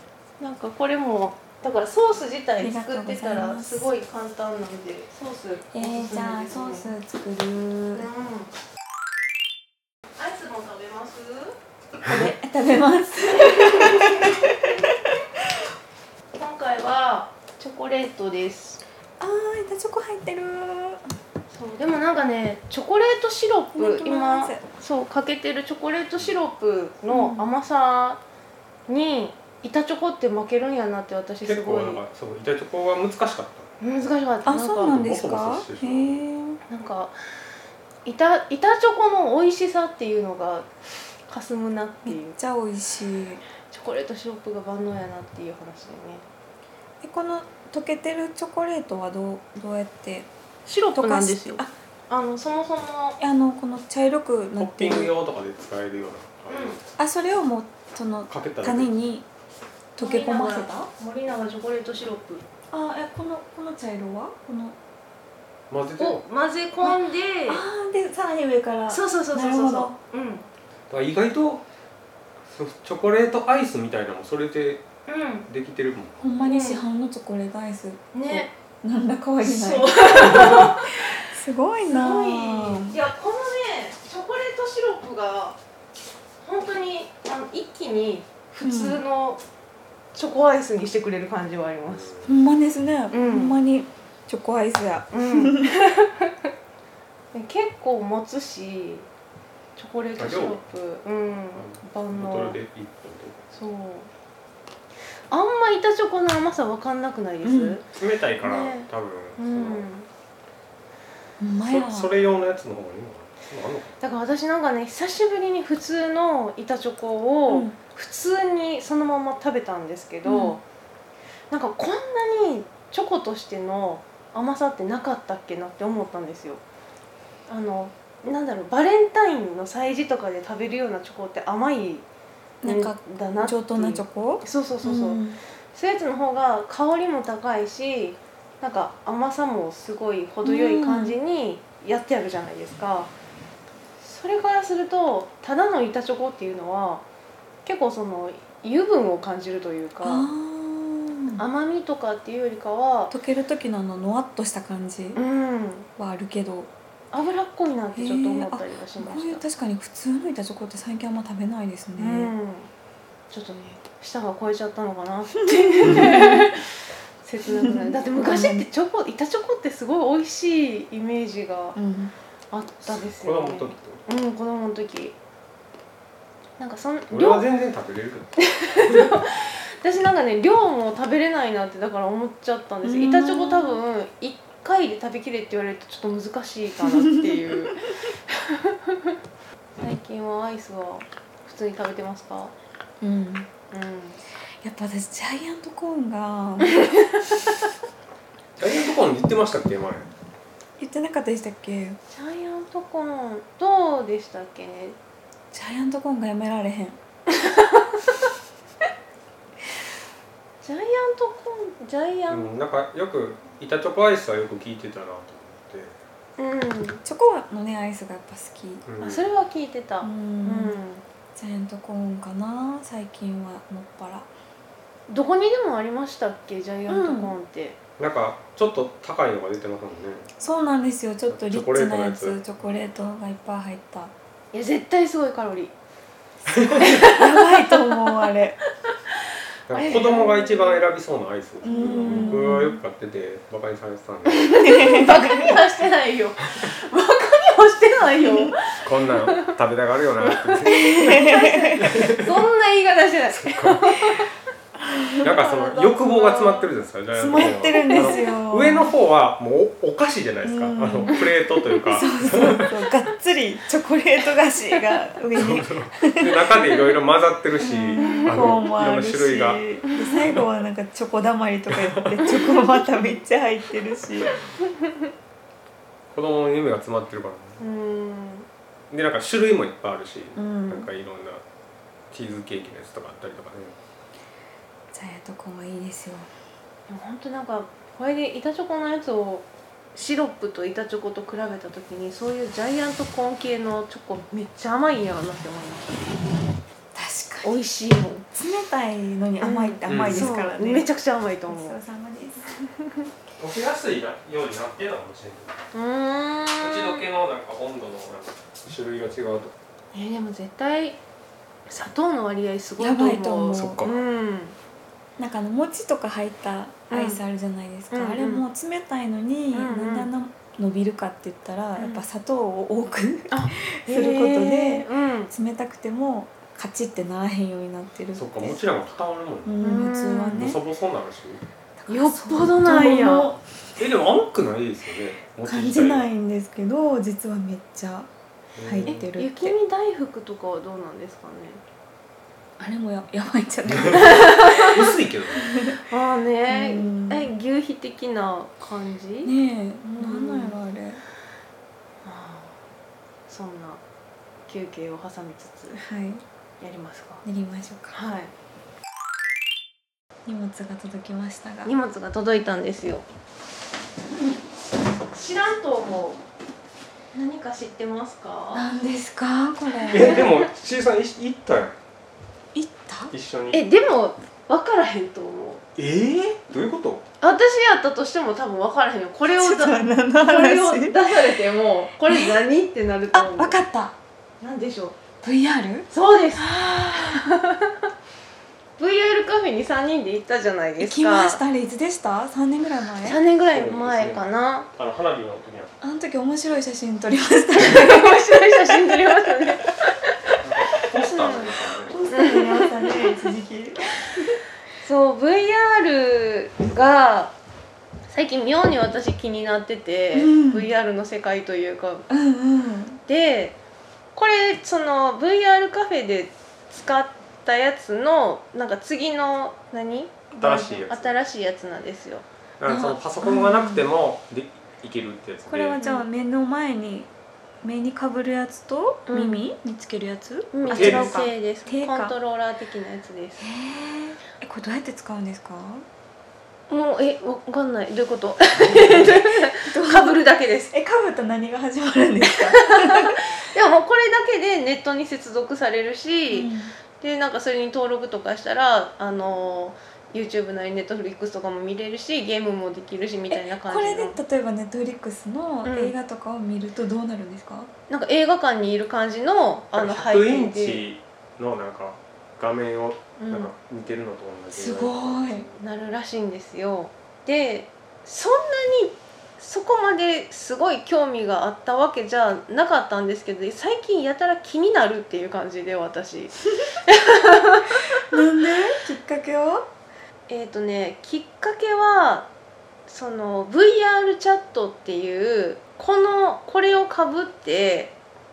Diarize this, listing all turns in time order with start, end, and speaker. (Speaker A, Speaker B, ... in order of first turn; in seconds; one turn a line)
Speaker A: 0.4-6.9
Speaker B: 2.6-3.9
Speaker B: 5.7-8.1
Speaker A: 7.9-8.5
Speaker A: 10.2-11.5
Speaker B: 12.0-15.5
Speaker A: 13.3-14.8
Speaker A: 16.3-18.8
Speaker B: 19.2-21.1
Speaker A: 21.5-28.2
Speaker B: 23.7-24.6
Speaker B: 27.1-27.4
Speaker A: 28.9-32.0
Speaker C: 31.4-33.8
Speaker A: 33.8-35.0
Speaker B: 34.5-36.6
Speaker C: 34.8-36.2
Speaker A: 36.7-37.2
Speaker A: 38.0-40.7
Speaker A: 41.3-42.4
Speaker B: 42.0-43.4
Speaker A: 43.7-46.2
Speaker B: 47.0-50.3
Speaker A: 50.7-53.2
Speaker B: 51.0-51.7
Speaker B: 53.2-55.1
Speaker C: 54.6-56.9
Speaker A: 56.5-56.8
Speaker B: 57.0-59.2
Speaker C: 58.3-58.9
Speaker B: 60.0-60.9
Speaker A: 60.0-62.4
Speaker B: 62.7-64.8
Speaker C: 65.7-66.2
Speaker A: 66.0-67.6
Speaker B: 66.8-70.0
Speaker A: 68.9-70.5
Speaker C: 70.9-71.6
Speaker C: 72.5-74.8
Speaker A: 75.1-75.5
Speaker C: 75.5-76.2
Speaker B: 76.2-83.0
Speaker A: 76.5-76.8
Speaker A: 78.1-78.5
Speaker A: 79.4-81.2
Speaker A: 81.8-85.6
Speaker A: 86.4-89.4
Speaker B: 88.6-89.0
Speaker A: 90.1-92.1
Speaker C: 91.8-92.3
Speaker B: 92.2-95.7
Speaker A: 93.1-93.5
Speaker A: 95.1-96.3
Speaker A: 97.3-99.1
Speaker A: 99.8-102.6
Speaker C: 100.2-100.6
Speaker C: 101.5-103.5
Speaker A: 103.5-104.1
Speaker A: 105.3-107.8
Speaker B: 107.4-107.8
Speaker C: 107.9-109.9
Speaker A: 108.4-110.1
Speaker B: 111.4-112.2
Speaker C: 111.6-113.9
Speaker A: 114.0-120.6
Speaker B: 117.5-117.8
Speaker B: 120.2-120.6
Speaker A: 121.5-126.6
Speaker A: 127.5-132.1
Speaker B: 132.6-135.4
Speaker A: 132.6-143.1
Speaker B: 140.4-141.2
Speaker A: 144.0-147.0
Speaker A: 147.7-150.3
Speaker B: 150.0-151.4
Speaker A: 151.3-153.1
Speaker B: 153.1-155.2
Speaker A: 155.2-155.9
Speaker B: 156.0-156.7
Speaker A: 157.1-159.4
Speaker B: 157.9-162.3
Speaker A: 162.0-162.7
Speaker A: 163.3-166.7
Speaker B: 165.5-166.5
Speaker A: 167.2-171.8
Speaker B: 167.4-168.7
Speaker B: 171.8-172.1
Speaker A: 172.5-175.2
Speaker C: 172.9-174.0
Speaker A: 176.6-177.4
Speaker C: 177.1-179.1
Speaker A: 178.4-187.8
Speaker B: 182.8-183.8
Speaker B: 187.0-187.7
Speaker A: 188.3-189.1
Speaker A: 189.8-192.5
Speaker B: 193.0-193.5
Speaker A: 193.7-194.2
Speaker B: 194.6-196.9
Speaker A: 196.7-197.3
Speaker C: 198.6-200.1
Speaker B: 200.8-202.0
Speaker A: 202.1-205.0
Speaker B: 205.5-207.0
Speaker A: 207.3-208.2
Speaker A: 210.6-212.5
Speaker C: 212.3-215.9
Speaker A: 216.4-217.0
Speaker B: 217.0-218.8
Speaker C: 218.8-219.3
Speaker A: 219.0-221.0
Speaker B: 220.0-220.8
Speaker B: 221.3-224.3
Speaker A: 225.1-227.8
Speaker B: 226.9-227.3
Speaker C: 228.0-230.3
Speaker B: 230.4-234.1
Speaker C: 231.3-232.4
Speaker A: 234.5-235.7
Speaker C: 236.5-237.1
Speaker A: 236.6-238.2
Speaker B: 237.1-238.6
Speaker A: 238.9-239.2
Speaker C: 239.7-244.6
Speaker A: 239.7-240.8
Speaker B: 241.6-242.8
Speaker A: 241.7-242.4
Speaker A: 244.3-249.5
Speaker B: 244.6-245.3
Speaker B: 248.2-248.5
Speaker C: 248.8-251.0
Speaker A: 250.2-254.3
Speaker B: 250.7-252.0
Speaker C: 251.8-252.3
Speaker C: 253.3-254.1
Speaker B: 254.8-255.3
Speaker C: 255.2-262.7
Speaker A: 255.2-256.7
Speaker B: 257.1-258.9
Speaker A: 257.4-258.2
Speaker B: 260.4-261.2
Speaker B: 261.9-266.7
Speaker C: 265.4-269.7
Speaker B: 267.6-274.4
Speaker A: 268.0-268.5
Speaker C: 271.7-272.2
Speaker A: 272.3-272.5
Speaker C: 276.1-277.6
Speaker A: 277.6-278.5
Speaker C: 278.9-281.4
Speaker B: 280.4-280.9
Speaker C: 282.1-283.8
Speaker B: 284.9-286.3
Speaker A: 286.9-296.0
Speaker B: 296.9-297.5
Speaker A: 297.4-298.2
Speaker B: 298.3-300.9
Speaker A: 299.4-301.8
Speaker C: 299.9-300.3
Speaker B: 301.5-302.6
Speaker C: 303.4-305.6
Speaker A: 305.7-307.0
Speaker C: 306.6-309.5
Speaker A: 309.9-311.0
Speaker A: 311.7-314.6
Speaker B: 312.8-313.9
Speaker C: 313.5-314.0
Speaker B: 315.2-328.6
Speaker A: 316.9-317.2
Speaker A: 317.9-318.4
Speaker A: 319.5-320.1
Speaker A: 321.8-322.0
Speaker A: 323.3-325.3
Speaker C: 328.1-329.6
Speaker B: 329.4-330.6
Speaker A: 329.6-330.5
Speaker C: 330.4-331.4
Speaker B: 331.8-333.4
Speaker A: 331.9-333.4
Speaker C: 333.8-336.1
Speaker B: 335.4-338.1
Speaker C: 338.6-339.1
Speaker B: 338.6-339.6
Speaker A: 338.9-341.6
Speaker B: 342.6-344.8
Speaker C: 343.7-345.6
Speaker A: 344.0-344.8
Speaker B: 345.4-345.8
Speaker A: 345.9-349.3
Speaker B: 346.5-347.3
Speaker B: 349.2-351.0
Speaker A: 350.0-350.6
Speaker A: 352.0-352.6
Speaker A: 353.3-353.8
Speaker A: 354.5-355.8
Speaker B: 355.8-356.2
Speaker A: 356.6-357.2
Speaker B: 357.2-358.0
Speaker A: 357.9-358.3
Speaker B: 360.2-361.7
Speaker A: 361.6-363.1
Speaker A: 365.1-366.2
Speaker A: 367.1-368.7
Speaker B: 368.5-370.3
Speaker C: 369.9-371.8
Speaker A: 370.0-370.2
Speaker B: 372.5-373.1
Speaker C: 373.1-373.6
Speaker A: 373.5-375.6
Speaker C: 375.8-377.0
Speaker A: 377.2-383.6
Speaker B: 379.3-381.1
Speaker B: 382.0-382.4
Speaker B: 383.1-383.9
Speaker A: 384.4-385.0
Speaker B: 385.2-387.3
Speaker A: 385.9-387.8
Speaker A: 388.8-391.4
Speaker B: 390.8-393.2
Speaker A: 393.0-394.7
Speaker C: 393.5-395.7
Speaker B: 395.8-399.2
Speaker A: 397.6-399.8
Speaker C: 400.4-402.0
Speaker A: 401.0-401.5
Speaker B: 401.9-404.4
Speaker A: 402.1-403.0
Speaker A: 404.8-407.4
Speaker A: 408.1-412.1
Speaker B: 410.1-410.7
Speaker B: 412.1-413.0
Speaker A: 413.1-413.6
Speaker A: 414.1-422.2
Speaker C: 420.4-421.1
Speaker C: 422.6-425.8
Speaker B: 422.6-423.9
Speaker B: 425.5-427.1
Speaker A: 425.8-426.1
Speaker B: 427.6-432.1
Speaker A: 429.1-429.4
Speaker A: 430.5-433.5
Speaker C: 430.7-431.2
Speaker B: 433.4-435.9
Speaker A: 436.7-440.7
Speaker B: 439.6-440.2
Speaker B: 440.7-443.2
Speaker A: 442.6-454.2
Speaker B: 446.3-446.8
Speaker B: 453.3-457.7
Speaker A: 455.6-455.9
Speaker A: 457.9-460.9
Speaker C: 459.8-465.6
Speaker A: 463.2-463.5
Speaker B: 464.5-465.5
Speaker A: 465.6-477.8
Speaker B: 478.0-479.7
Speaker A: 480.3-482.3
Speaker A: 482.9-487.9